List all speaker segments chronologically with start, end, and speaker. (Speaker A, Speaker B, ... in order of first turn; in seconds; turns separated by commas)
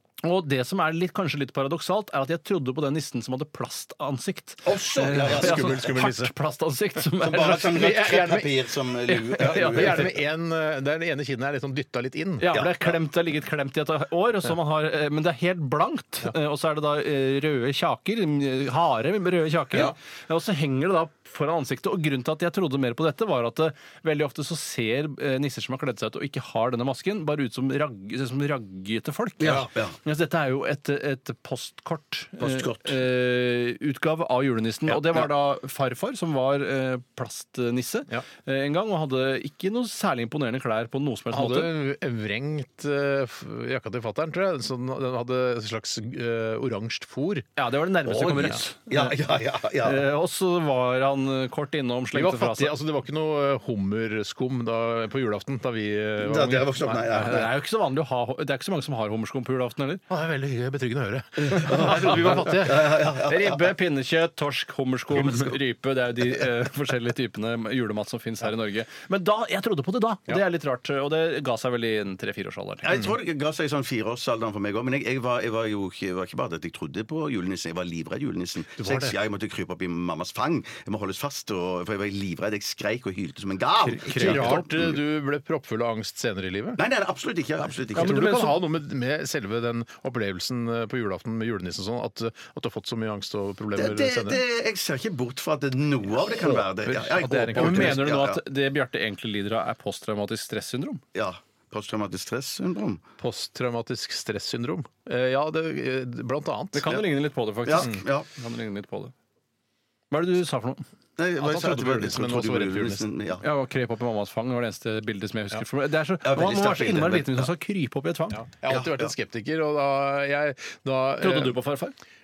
Speaker A: 0.2-8.0, Speaker B: 4.7-5.9, Speaker C: 5.2-6.3, Speaker B: 7.2-10.1, Speaker C: 7.7-8.5, Speaker A: 9.1-10.1, Speaker C: 9.5-12.5, Speaker A: 12.4-41.7, Speaker B: 12.5-12.9, Speaker B: 29.4-29.9, Speaker B: 32.4-33.0, Speaker C: 41.3-47.5, Speaker A: 47.6-49.2, Speaker B: 48.1-50.1, Speaker A: 49.8-52.8, Speaker C: 52.1-57.4, Speaker B: 56.2-57.5, Speaker A: 57.1-60.0, Speaker C: 60.1-62.8, Speaker B: 61.4-63.7, Speaker A: 61.5-72.9, Speaker B: 72.8-85.0, Speaker C: 78.8-79.2, Speaker A: 83.8-84.6, Speaker C: 84.1-86.8, Speaker B: 86.8-88.4, Speaker A: 87.9-88.6, Speaker C: 87.9-94.4, Speaker B: 93.8-98.4, Speaker C: 96.4-98.0, Speaker A: 97.5-101.0, Speaker B: 101.2-103.0, Speaker C: 103.2-106.8, Speaker A: 106.7-109.1, Speaker B: 107.6-108.3, Speaker A: 110.1-110.8, Speaker B: 111.2-113.4, Speaker C: 111.4-113.1, Speaker A: 113.4-118.4, Speaker B: 116.2-117.5, Speaker C: 118.3-121.6, Speaker B: 118.7-119.1, Speaker A: 121.2-121.9